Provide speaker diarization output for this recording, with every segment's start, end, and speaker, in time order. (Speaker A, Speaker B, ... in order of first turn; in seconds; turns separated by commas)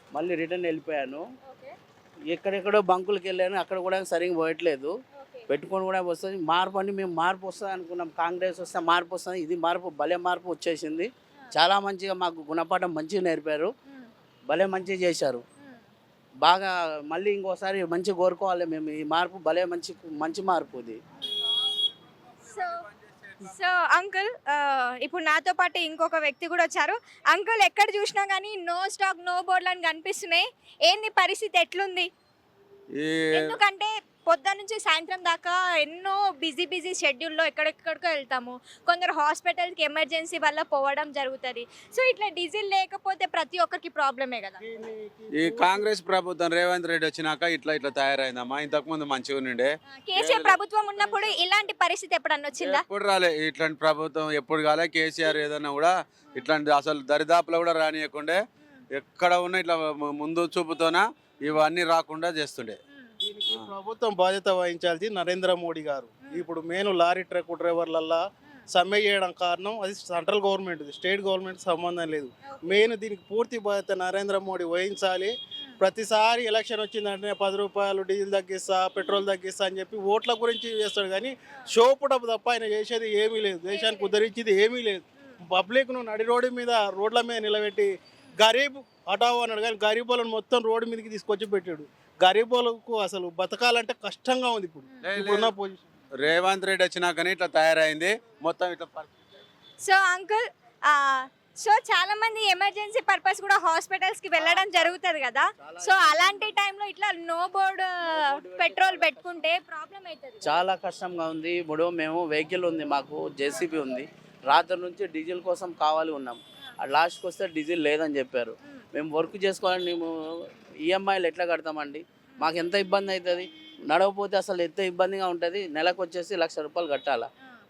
Speaker A: 0.1-1.2, Speaker B: 1.4-1.8, Speaker A: 2.3-4.9, Speaker B: 5.2-5.5, Speaker A: 5.5-13.7, Speaker A: 14.5-15.4, Speaker B: 15.6-15.9, Speaker A: 16.4-21.0, Speaker B: 22.4-22.8, Speaker B: 23.4-32.1, Speaker C: 33.0-33.5, Speaker B: 33.3-44.6, Speaker D: 45.0-45.8, Speaker C: 45.3-50.6, Speaker B: 50.0-52.8, Speaker C: 52.6-62.8, Speaker D: 63.2-68.2, Speaker D: 68.7-87.9, Speaker B: 72.4-72.9, Speaker B: 83.7-84.3, Speaker D: 88.4-95.8, Speaker C: 95.0-95.5, Speaker C: 96.2-99.1, Speaker B: 99.8-110.6, Speaker A: 104.3-105.0, Speaker A: 105.6-106.6, Speaker A: 108.0-109.5, Speaker A: 110.4-127.3